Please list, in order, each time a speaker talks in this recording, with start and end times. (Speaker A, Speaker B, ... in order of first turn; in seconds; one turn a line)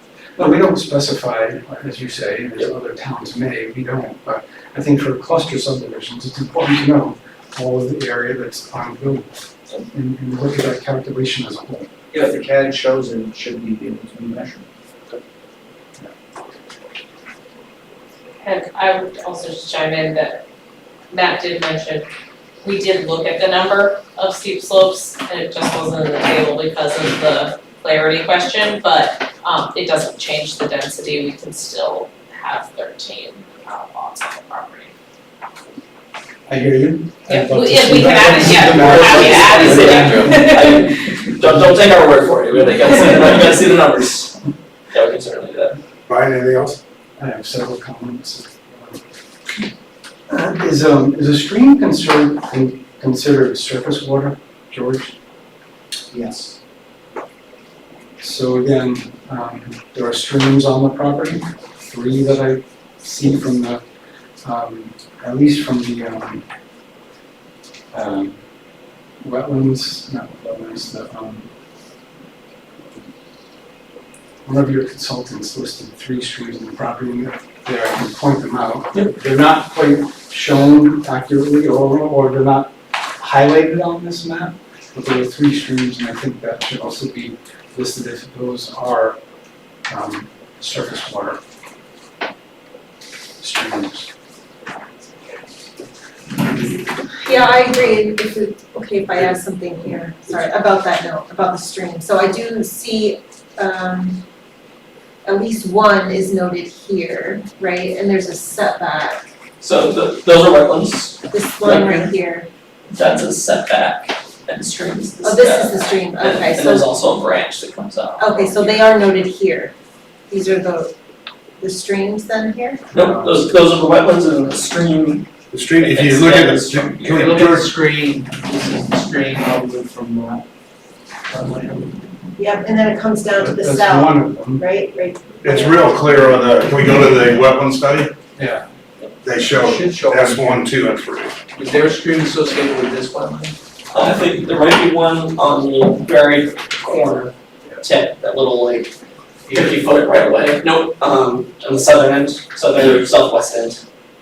Speaker A: 0.4-11.9
Speaker B: 12.1-14.7
Speaker C: 18.4-20.4
Speaker C: 21.1-22.1
Speaker C: 22.6-34.9
Speaker A: 36.5-40.3
Speaker C: 37.3-40.9
Speaker D: 38.6-44.4
Speaker D: 44.9-45.8
Speaker E: 46.1-46.8
Speaker A: 47.2-49.0
Speaker A: 50.3-55.2
Speaker B: 56.1-56.5
Speaker A: 58.2-63.8
Speaker A: 64.4-66.5
Speaker A: 67.9-68.4
Speaker A: 69.2-71.5
Speaker A: 74.5-89.2
Speaker A: 89.9-91.4
Speaker A: 93.4-94.1
Speaker F: 97.1-104.2
Speaker F: 105.2-109.2
Speaker D: 109.6-112.1
Speaker F: 111.3-112.5
Speaker D: 112.9-118.8
Speaker F: 115.2-116.9
Speaker F: 118.2-119.7
Speaker F: 120.3-120.9
Speaker F: 121.6-122.9
Speaker D: 122.9-125.3
Speaker E: 125.5-127.8
Speaker D: 125.8-127.5
Speaker B: 127.1-130.4
Speaker B: 131.3-132.0
Speaker F: 132.4-135.7
Speaker A: 133.4-134.7
Speaker E: 135.4-138.1
Speaker A: 138.4-138.7
Speaker E: 139.2-141.4
Speaker B: 139.4-140.7
Speaker B: 141.5-143.6
Speaker D: 143.9-148.9
Speaker B: 149.5-149.8
Speaker D: 149.5-153.8